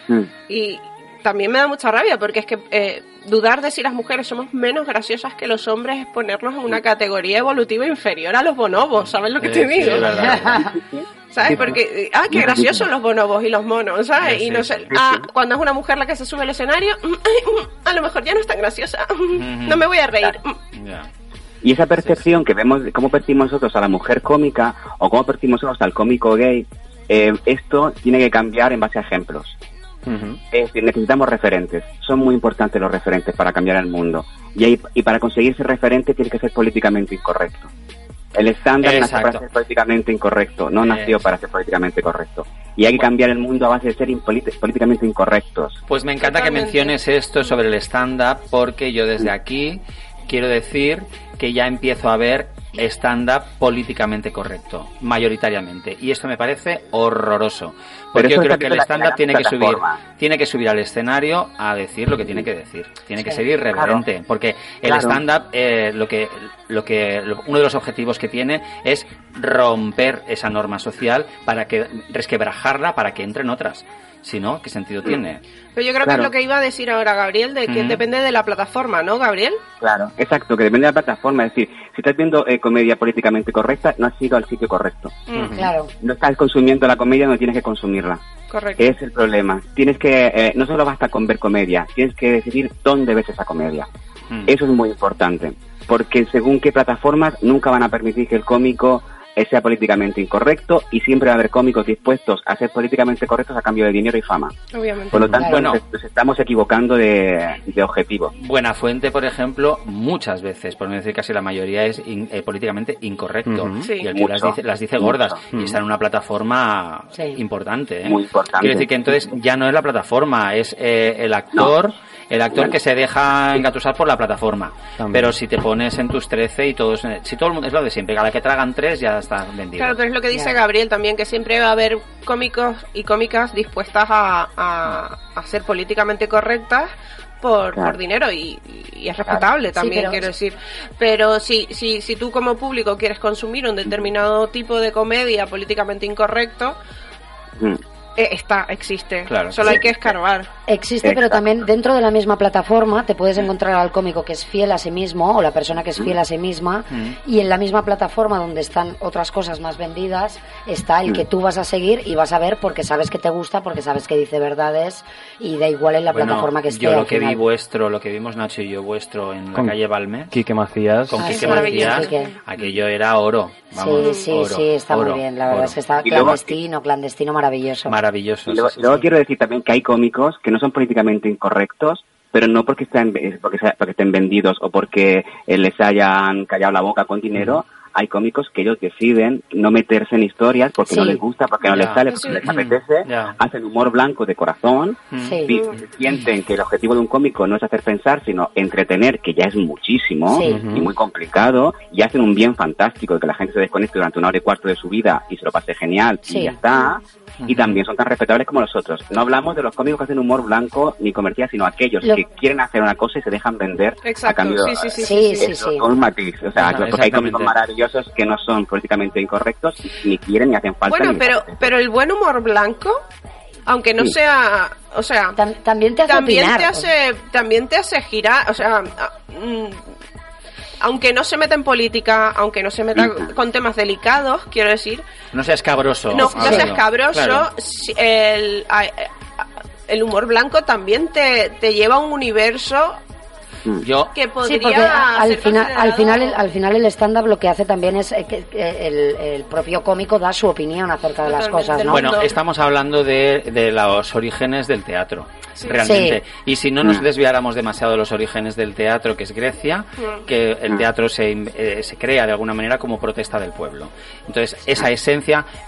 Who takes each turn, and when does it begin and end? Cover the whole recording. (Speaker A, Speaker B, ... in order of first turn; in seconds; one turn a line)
Speaker A: 0.5-10.1
Speaker B: 9.4-10.7
Speaker C: 10.2-10.7
Speaker D: 10.6-11.8
Speaker A: 11.3-20.6
Speaker B: 11.5-11.8
Speaker D: 12.3-12.9
Speaker B: 14.2-14.9
Speaker D: 14.9-15.2
Speaker B: 19.4-19.8
Speaker B: 20.8-21.1
Speaker D: 21.6-29.6
Speaker E: 30.1-30.4
Speaker D: 30.5-37.7
Speaker D: 38.4-45.8
Speaker B: 38.8-39.4
Speaker B: 40.8-41.2
Speaker B: 45.9-75.4
Speaker A: 46.2-46.9
Speaker D: 58.1-60.0
Speaker D: 63.7-64.0
Speaker D: 64.8-65.2
Speaker A: 75.8-79.6
Speaker B: 77.7-78.0
Speaker D: 79.8-85.3
Speaker A: 85.3-85.5
Speaker E: 85.3-85.7
Speaker C: 85.5-85.9
Speaker D: 86.0-88.2
Speaker A: 88.5-88.9
Speaker D: 88.8-93.9
Speaker D: 94.5-104.5
Speaker A: 104.7-105.4
Speaker D: 105.1-108.3
Speaker B: 105.3-105.8
Speaker B: 108.4-130.0
Speaker E: 113.5-113.9
Speaker A: 113.8-114.1
Speaker D: 114.1-115.4
Speaker E: 115.5-115.8
Speaker D: 118.0-119.1
Speaker E: 125.0-125.3
Speaker A: 129.8-146.8
Speaker C: 139.8-140.3
Speaker A: 148.2-150.5
Speaker B: 149.3-149.8
Speaker C: 150.7-167.4
Speaker D: 151.0-151.4
Speaker B: 156.9-157.2
Speaker B: 166.1-170.3
Speaker E: 170.3-171.9
Speaker B: 171.1-176.4
Speaker A: 171.2-172.3
Speaker C: 171.2-172.3
Speaker C: 173.7-178.0
Speaker A: 174.0-174.3
Speaker D: 176.0-176.5
Speaker B: 177.9-179.1
Speaker D: 178.5-221.6
Speaker C: 190.8-191.2
Speaker B: 191.7-193.4
Speaker A: 192.1-192.4
Speaker B: 195.1-195.5
Speaker C: 195.2-195.5
Speaker A: 195.5-195.8
Speaker C: 200.3-200.7
Speaker E: 200.5-200.9
Speaker C: 206.3-206.6
Speaker B: 207.4-207.8
Speaker A: 214.0-215.5
Speaker C: 215.0-215.9
Speaker B: 216.6-217.6
Speaker A: 220.9-223.0
Speaker A: 223.7-225.4
Speaker C: 225.4-226.9
Speaker A: 226.1-229.8
Speaker A: 230.8-235.0
Speaker B: 235.3-237.5
Speaker A: 236.1-243.0
Speaker C: 236.4-236.7
Speaker B: 243.8-244.1
Speaker A: 244.1-246.4
Speaker C: 244.4-252.2
Speaker A: 251.2-252.3
Speaker B: 251.9-265.4
Speaker C: 255.8-256.2